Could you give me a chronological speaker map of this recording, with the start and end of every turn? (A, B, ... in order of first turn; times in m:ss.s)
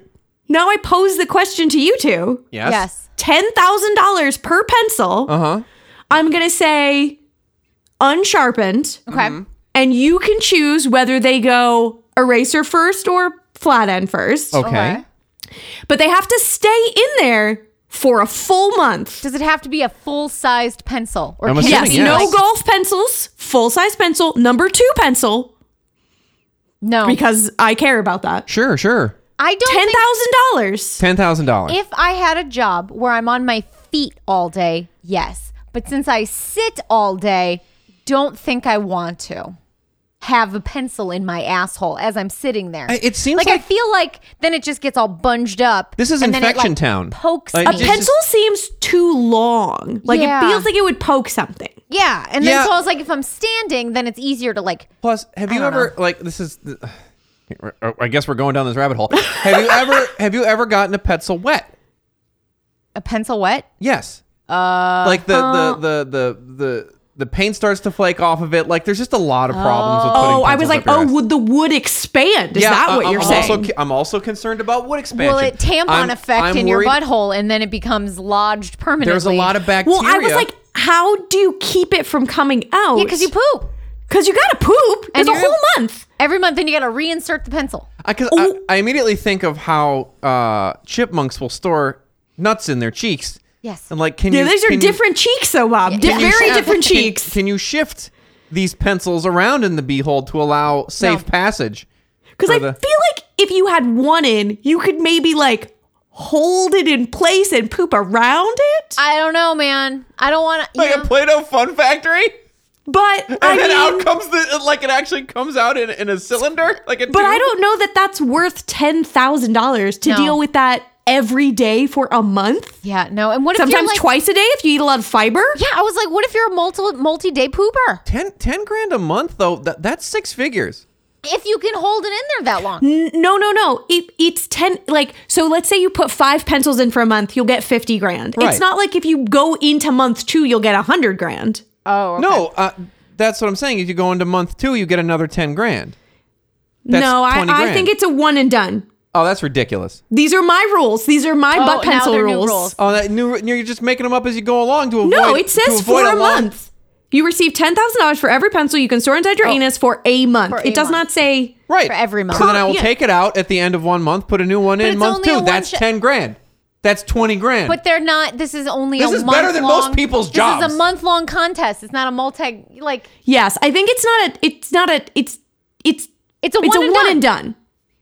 0:00.5-0:02.5 A
0:02.5-0:02.8 B
0:02.6-0:03.0 C
0:03.2-0:05.3 A
0:05.3-0:05.6 B
0:06.1-0:07.2 A
0:08.0-0:09.0 A
0:09.1-0:09.4 C
0:09.1-0:09.4 B
0:09.7-0:14.6 A
0:14.5-0:15.0 B
0:14.6-0:15.0 C
0:15.9-0:19.2 A
0:19.2-0:22.4 C
0:21.4-0:22.4 B
0:21.6-0:25.5 A
0:26.8-0:27.2 C
0:27.0-0:28.4 A
0:28.5-0:29.1 B
0:29.4-0:30.1 C
0:29.6-0:31.0 A
0:31.0-0:31.8 B
0:31.7-0:39.6 C
0:40.2-0:48.0 C
0:42.9-0:43.6 B
0:46.0-0:48.1 B
0:47.6-0:51.7 A
0:50.0-0:50.7 C
0:51.9-0:54.9 C
0:52.4-0:52.7 B
0:55.0-0:57.0 B
0:55.5-0:55.9 C
0:57.5-1:01.7 B
1:03.0-1:03.7 C
1:03.8-1:04.2 B
1:04.5-1:05.3 C
1:05.0-1:11.1 B
1:05.3-1:05.8 A
1:09.5-1:10.4 C
1:10.1-1:13.7 A
1:12.5-1:17.0 B
1:13.1-1:13.6 C
1:15.1-1:19.5 C
1:19.0-1:20.5 B
1:19.8-1:23.3 A
1:22.9-1:23.7 C
1:24.1-1:26.0 A
1:25.1-1:25.6 C
1:26.2-1:27.9 C
1:28.0-1:35.0 B
1:28.3-1:28.6 A
1:33.6-1:33.9 C
1:34.3-1:37.3 A
1:35.9-1:37.1 C
1:36.0-1:41.8 B
1:41.0-1:41.2 C
1:42.4-1:49.0 A
1:42.4-1:42.8 B
1:49.0-1:51.1 C
1:50.8-1:52.3 B
1:52.9-1:54.1 A
1:53.3-1:57.5 B
1:57.1-2:02.8 A
2:00.0-2:00.4 C
2:02.8-2:04.0 C
2:03.6-2:05.6 A
2:05.6-2:08.0 C
2:08.0-2:10.8 B
2:11.2-2:12.8 C
2:12.8-2:21.6 A
2:18.4-2:18.6 B
2:21.8-2:22.5 C
2:22.2-2:26.0 B
2:26.8-2:28.9 A
2:26.9-2:27.9 B
2:29.1-2:30.0 B
2:30.1-2:32.7 A
2:31.5-2:32.8 C
2:32.8-2:36.5 B
2:35.0-2:41.6 A
2:40.5-2:41.0 C
2:41.7-2:47.8 B
2:41.9-2:42.6 C
2:42.3-2:42.9 A
2:44.8-2:45.8 C
2:47.6-2:53.1 C
2:49.0-2:50.8 B
2:53.2-2:56.1 A
2:56.4-2:57.2 C
2:56.6-2:57.5 A